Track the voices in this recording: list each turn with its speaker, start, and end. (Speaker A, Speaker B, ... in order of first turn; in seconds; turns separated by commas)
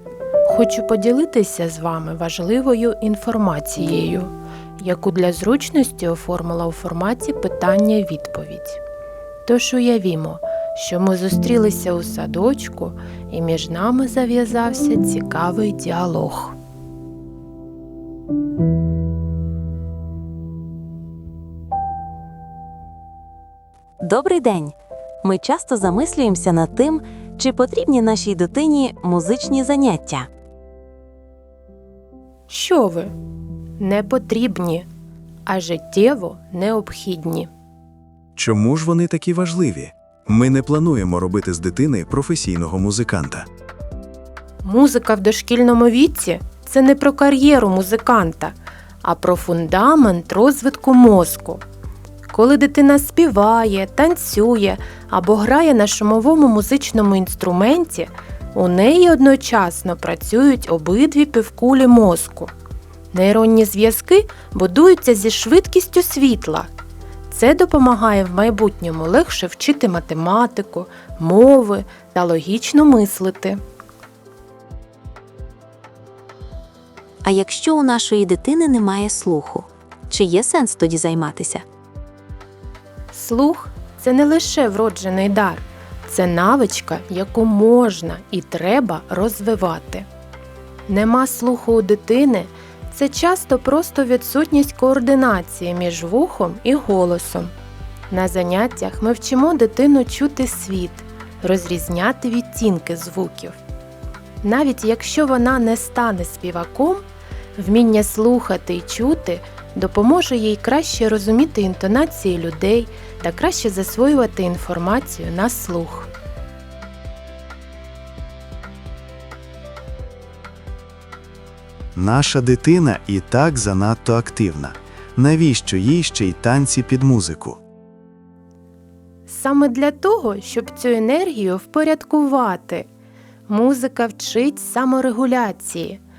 Speaker A: 0.4-8.8, Speaker A: 9.4-16.6, Speaker B: 24.0-30.3, Speaker A: 32.5-33.1, Speaker A: 33.8-34.9, Speaker A: 35.5-37.5, Speaker C: 38.4-43.5, Speaker A: 44.6-51.6, Speaker A: 52.3-62.5, Speaker A: 63.1-66.7, Speaker A: 67.3-73.6, Speaker B: 77.2-81.6, Speaker A: 83.1-90.1, Speaker A: 90.9-97.5, Speaker A: 98.1-103.6, Speaker A: 104.4-107.0, Speaker A: 107.5-116.1, Speaker C: 121.9-127.6, Speaker A: 129.3-132.8, Speaker A: 133.5-136.0